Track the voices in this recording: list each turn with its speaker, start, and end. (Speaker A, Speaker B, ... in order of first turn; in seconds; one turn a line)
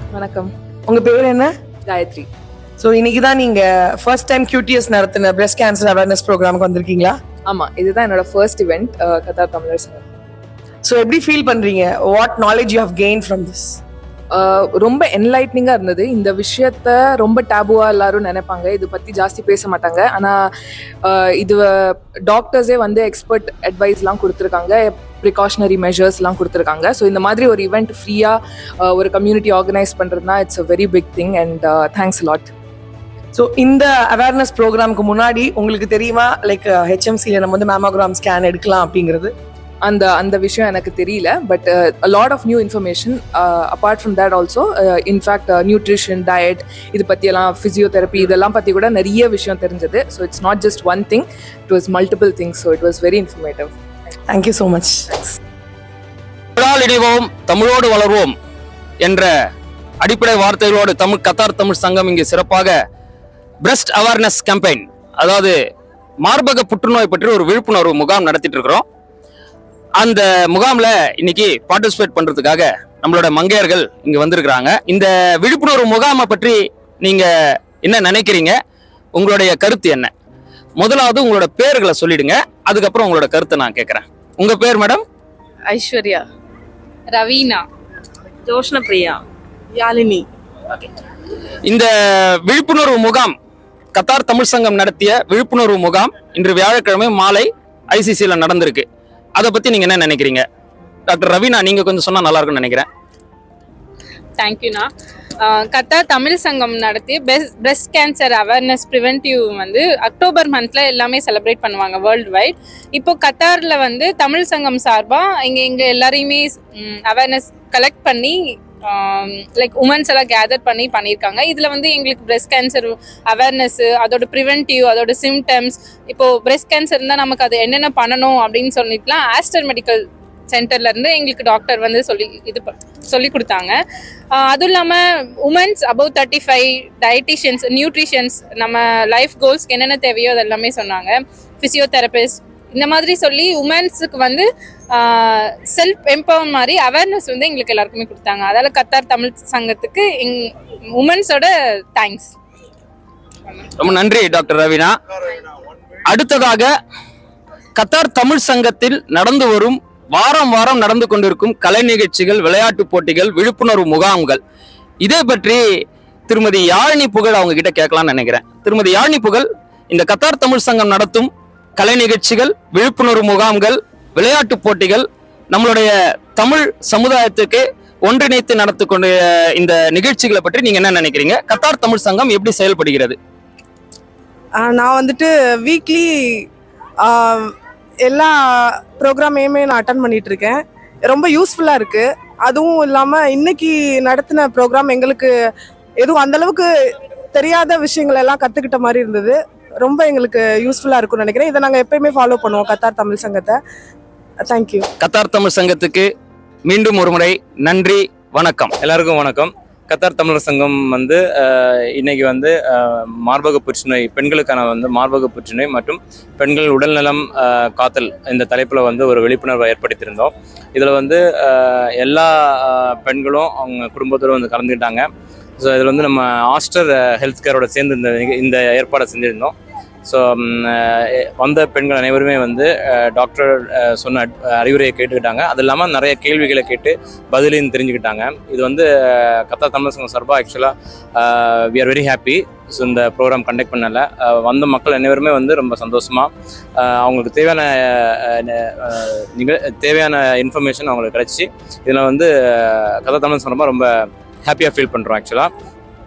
Speaker A: 0.1-0.5
Speaker B: 0.9-1.5
Speaker A: 1.9-2.3
Speaker B: 2.8-7.2
Speaker A: 7.5-10.0
Speaker B: 10.8-13.8
Speaker A: 14.3-20.4
Speaker A: 21.0-32.5
Speaker B: 33.3-39.3
Speaker A: 39.8-53.8
Speaker B: 54.3-55.3
Speaker C: 56.6-58.3
Speaker C: 59.0-59.3
Speaker C: 60.0-62.8
Speaker C: 63.6-65.5
Speaker C: 66.2-68.8
Speaker C: 70.0-77.3
Speaker C: 77.8-78.5
Speaker C: 79.2-80.1
Speaker C: 80.8-85.0
Speaker D: 85.7-86.3
Speaker E: 87.1-87.6
Speaker D: 88.5-89.2
Speaker D: 89.7-90.3
Speaker C: 91.7-93.3
Speaker C: 93.9-98.8
Speaker C: 99.4-100.4
Speaker C: 101.1-102.9
Speaker E: 104.4-104.9
Speaker E: 105.4-133.8
Speaker E: 134.3-152.3
Speaker C: 153.8-154.9
Speaker C: 156.1-156.7
Speaker C: 157.8-164.4
Speaker C: 165.0-165.6
Speaker C: 166.3-183.2
Speaker D: 184.6-186.5
Speaker D: 187.0-195.3
Speaker D: 196.0-203.6
Speaker D: 204.4-204.9
Speaker C: 205.0-206.1
Speaker C: 206.7-208.7
Speaker F: 208.8-225.1
Speaker F: 225.6-229.5
Speaker F: 230.1-253.9
Speaker F: 254.4-255.5